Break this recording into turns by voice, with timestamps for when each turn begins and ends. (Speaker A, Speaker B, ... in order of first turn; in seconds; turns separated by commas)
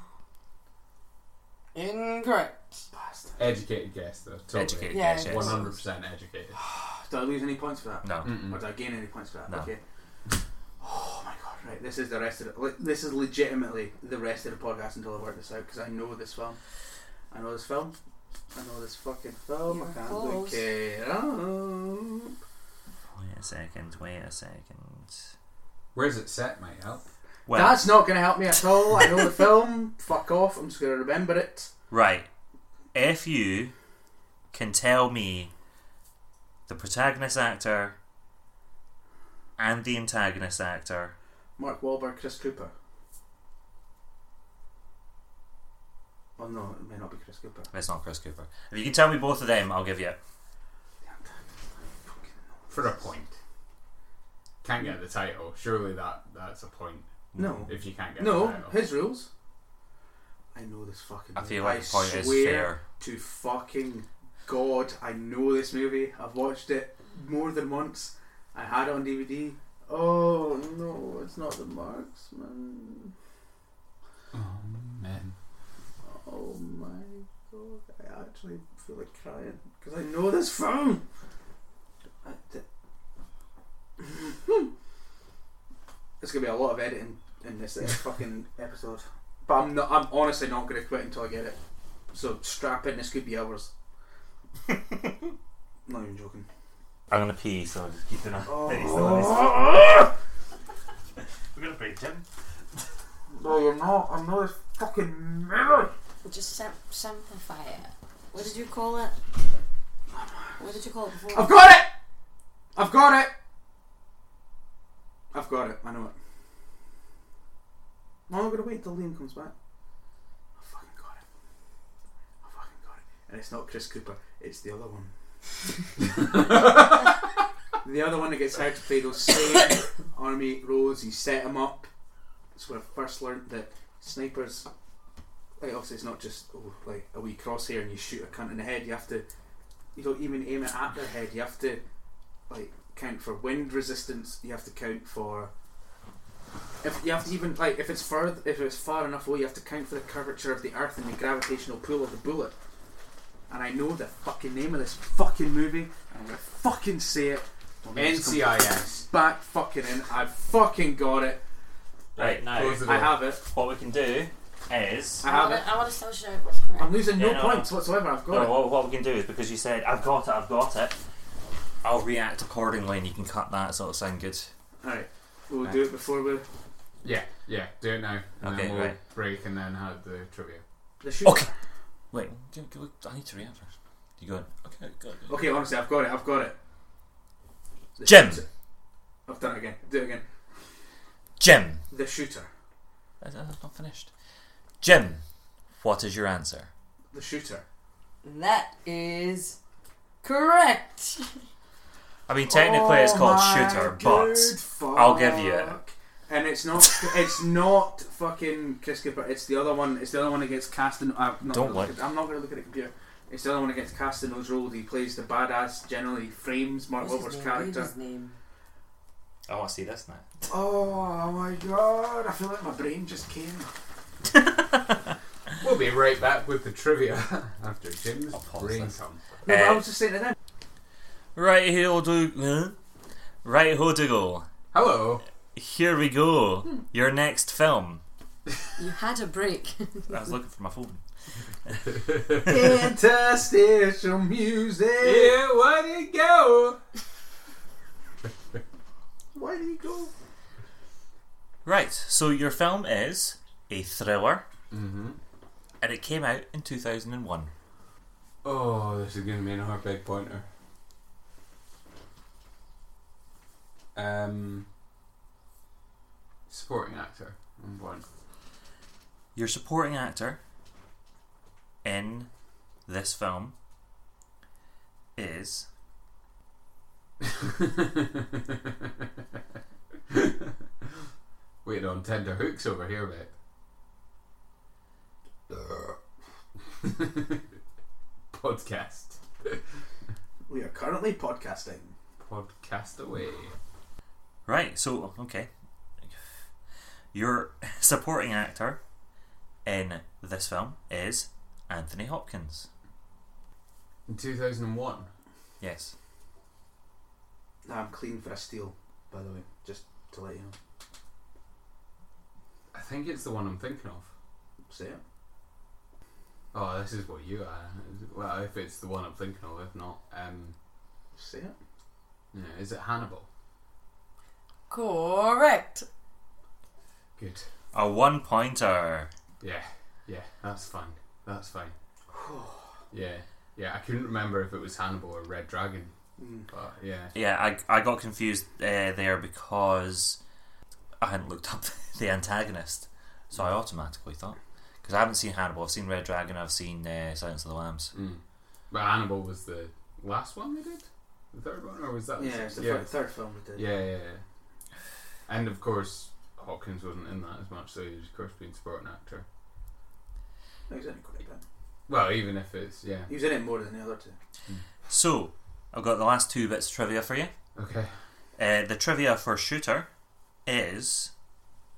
Speaker A: 1.7-2.8, Speaker B: 2.9-3.6, Speaker C: 3.4-6.6, Speaker D: 4.5-5.7, Speaker A: 4.9-5.8, Speaker B: 6.5-9.8, Speaker D: 8.0-8.4, Speaker C: 8.2-8.6, Speaker B: 10.8-16.6, Speaker B: 17.3-18.0, Speaker B: 18.5-22.4, Speaker A: 19.7-20.6, Speaker D: 23.1-25.2, Speaker C: 25.9-27.1, Speaker D: 27.5-28.0, Speaker B: 27.5-31.7, Speaker D: 31.9-32.3, Speaker D: 32.9-33.7, Speaker D: 34.5-35.5, Speaker D: 36.7-38.0, Speaker D: 39.6-41.1, Speaker B: 41.6-42.7, Speaker B: 46.4-47.7, Speaker D: 47.7-50.2, Speaker B: 51.0-53.0, Speaker C: 52.7-53.4, Speaker C: 54.6-57.1, Speaker D: 57.3-57.6, Speaker B: 57.4-59.3, Speaker C: 57.7-58.8, Speaker B: 60.5-73.1, Speaker D: 61.4-62.8, Speaker C: 74.3-75.3, Speaker B: 76.0-81.0, Speaker B: 82.2-82.7, Speaker B: 84.0-84.7, Speaker B: 86.2-91.6, Speaker B: 92.1-93.7, Speaker B: 95.9-96.5, Speaker D: 97.1-100.0, Speaker B: 98.5-100.1, Speaker D: 101.5-102.2, Speaker B: 103.3-105.9, Speaker A: 106.2-109.2, Speaker B: 110.1-110.6, Speaker A: 110.6-111.5, Speaker B: 111.3-111.9, Speaker B: 112.8-113.3, Speaker B: 115.3-116.2, Speaker B: 118.3-119.5, Speaker B: 120.6-121.2, Speaker B: 122.4-125.1, Speaker B: 127.8-131.9, Speaker B: 132.6-134.7, Speaker B: 135.6-139.2, Speaker B: 139.9-141.8, Speaker B: 142.5-145.5, Speaker B: 146.8-152.5, Speaker B: 153.5-161.4, Speaker C: 157.9-159.1, Speaker D: 162.2-165.2, Speaker C: 162.2-163.2, Speaker B: 162.6-163.4, Speaker B: 165.2-165.7, Speaker A: 165.2-167.1, Speaker B: 166.8-168.6, Speaker D: 167.2-167.7, Speaker D: 168.3-171.0, Speaker D: 171.8-174.5, Speaker B: 174.8-176.4, Speaker C: 177.0-180.6, Speaker D: 178.4-179.0, Speaker B: 181.0-181.5, Speaker D: 181.2-181.5, Speaker D: 182.1-185.3, Speaker B: 185.3-186.6, Speaker B: 188.0-188.5, Speaker D: 188.1-188.4, Speaker B: 189.3-190.2, Speaker D: 191.4-191.8, Speaker B: 191.9-192.5, Speaker D: 193.2-194.1, Speaker D: 194.8-195.2, Speaker D: 195.8-196.7, Speaker B: 197.1-197.6, Speaker A: 198.2-199.6, Speaker A: 200.2-201.4, Speaker D: 202.3-205.8, Speaker B: 202.5-217.9, Speaker D: 211.5-211.9, Speaker A: 217.0-218.4, Speaker D: 219.5-220.4, Speaker B: 220.5-223.7, Speaker C: 225.6-229.2, Speaker D: 228.3-228.9, Speaker B: 229.4-230.4, Speaker D: 229.5-229.8, Speaker D: 231.4-232.8, Speaker D: 233.4-234.5, Speaker C: 234.7-235.2, Speaker D: 235.5-238.0, Speaker A: 238.8-240.2, Speaker D: 240.1-241.0, Speaker B: 242.3-245.4, Speaker C: 245.0-246.8, Speaker B: 249.3-250.1, Speaker D: 251.7-254.4, Speaker C: 254.7-255.2, Speaker D: 255.8-257.5, Speaker C: 258.4-260.5, Speaker C: 263.9-264.7, Speaker C: 266.5-268.0, Speaker D: 269.4-270.4, Speaker D: 271.8-272.3, Speaker D: 272.9-273.5, Speaker D: 275.2-275.7, Speaker C: 277.2-279.1, Speaker C: 280.1-280.6, Speaker C: 281.6-283.3, Speaker C: 285.5-285.9, Speaker C: 286.8-287.4, Speaker C: 288.3-289.6, Speaker B: 290.5-291.9, Speaker C: 292.2-293.5, Speaker D: 294.5-295.5, Speaker D: 297.1-298.8, Speaker D: 299.6-302.7, Speaker C: 304.1-305.1, Speaker D: 305.6-305.9, Speaker B: 307.6-310.6, Speaker C: 312.7-314.1, Speaker B: 314.7-315.0, Speaker C: 316.5-320.6, Speaker B: 321.1-321.6, Speaker C: 322.3-323.3, Speaker A: 324.7-325.9, Speaker C: 327.2-327.5, Speaker D: 327.7-329.1, Speaker C: 329.4-331.7, Speaker B: 332.1-332.7, Speaker C: 332.9-335.9, Speaker B: 336.2-336.5, Speaker C: 336.5-337.1, Speaker D: 337.1-340.2, Speaker D: 341.0-347.9, Speaker C: 347.9-352.9, Speaker B: 352.2-353.7, Speaker C: 353.6-354.2, Speaker C: 355.3-359.2, Speaker B: 360.7-361.4, Speaker C: 361.9-363.1, Speaker B: 363.1-364.2, Speaker D: 364.9-367.3, Speaker C: 367.6-367.9, Speaker D: 368.4-369.9, Speaker D: 370.5-371.1